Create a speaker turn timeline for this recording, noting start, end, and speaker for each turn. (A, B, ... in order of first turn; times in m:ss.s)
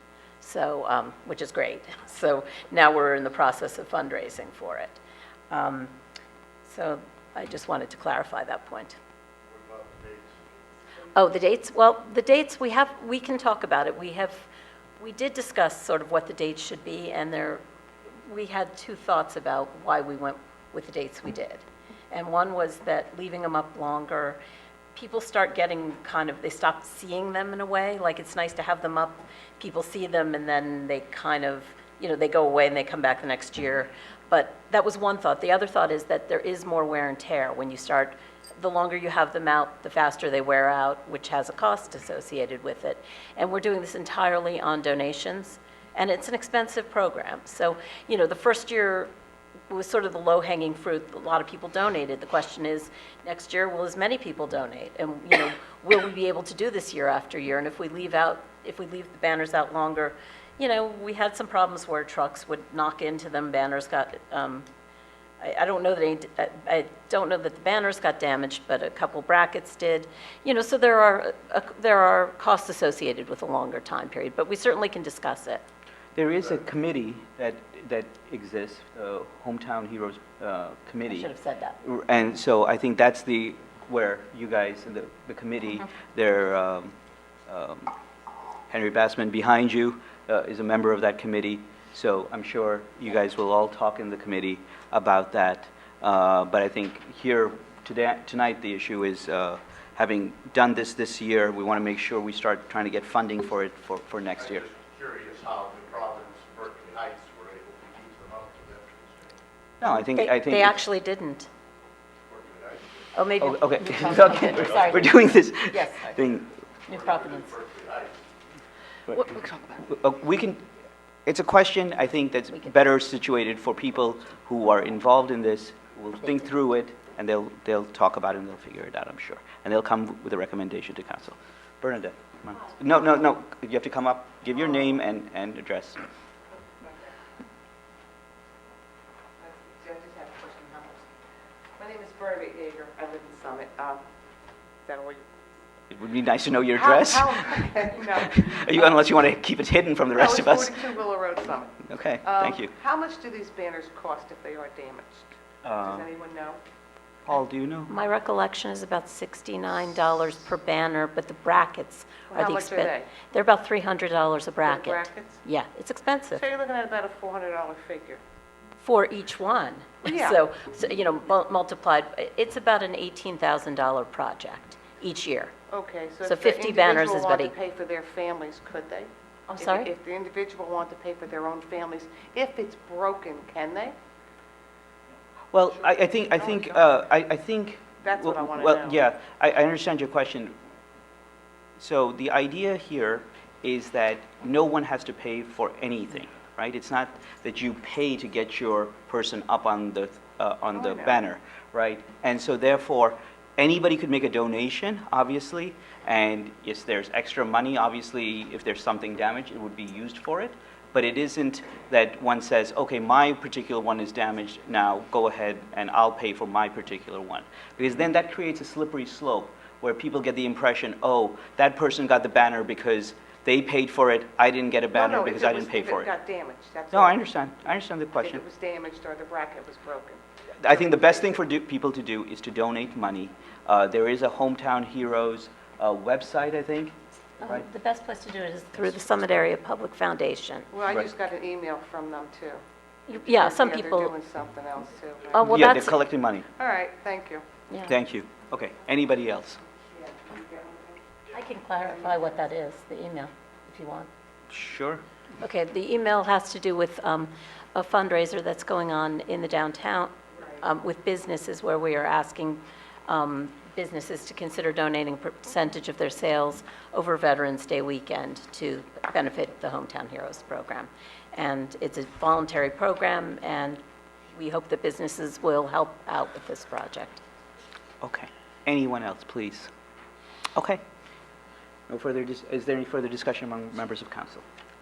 0:00.4-0:05.9 A
0:06.6-0:09.0 A
0:09.4-0:10.6 B
0:11.1-0:17.6 A
0:18.2-0:24.4 A
0:24.9-0:49.1 A
0:49.7-1:04.7 A
1:05.4-1:15.6 A
1:16.2-1:21.3 C
1:21.1-1:21.8 A
1:21.8-1:26.9 C
1:27.5-1:27.9 C
1:28.7-1:44.6 C
1:44.5-1:49.4 B
1:49.8-1:50.8 C
1:49.8-1:51.5 A
1:52.3-1:53.0 B
1:53.1-1:56.2 A
1:53.4-1:56.5 C
1:54.4-1:54.9 B
1:56.9-1:57.6 A
1:56.9-1:58.2 B
1:59.1-2:00.6 C
2:01.2-2:16.1 C
2:16.5-2:17.2 D
2:19.4-2:21.1 D
2:21.8-2:24.0 D
2:24.8-2:25.3 D
2:25.9-2:30.8 C
2:26.8-2:28.8 D
2:30.1-2:35.3 D
2:31.8-2:32.7 C
2:35.6-2:36.1 C
2:35.8-2:36.6 D
2:37.2-2:37.9 C
2:37.9-2:46.4 A
2:42.3-2:43.1 D
2:44.6-2:45.4 D
2:46.3-2:48.2 D
2:48.8-2:55.5 A
2:50.0-2:50.4 D
2:55.7-3:03.9 D
2:56.2-2:57.5 A
2:59.5-2:59.9 A
3:05.5-3:10.5 C
3:06.3-3:06.7 D
3:08.0-3:09.0 D
3:11.8-3:46.1 C
3:44.9-3:47.2 D
3:46.9-3:48.4 C
3:48.2-3:51.1 D
3:50.6-3:57.6 C
3:57.4-4:00.7 A
4:00.7-4:02.6 D
4:03.1-4:04.1 A
4:03.1-4:05.7 D
4:05.3-4:06.0 A
4:05.4-4:06.5 C
4:06.6-4:07.4 D
4:07.7-4:08.0 A
4:07.8-4:09.6 C
4:09.9-4:11.0 D
4:11.3-4:14.1 A
4:14.5-4:15.0 C
4:15.4-4:33.8 A
4:34.3-4:37.2 A
4:38.0-4:39.7 C
4:40.5-4:40.8 C
4:41.9-4:44.4 C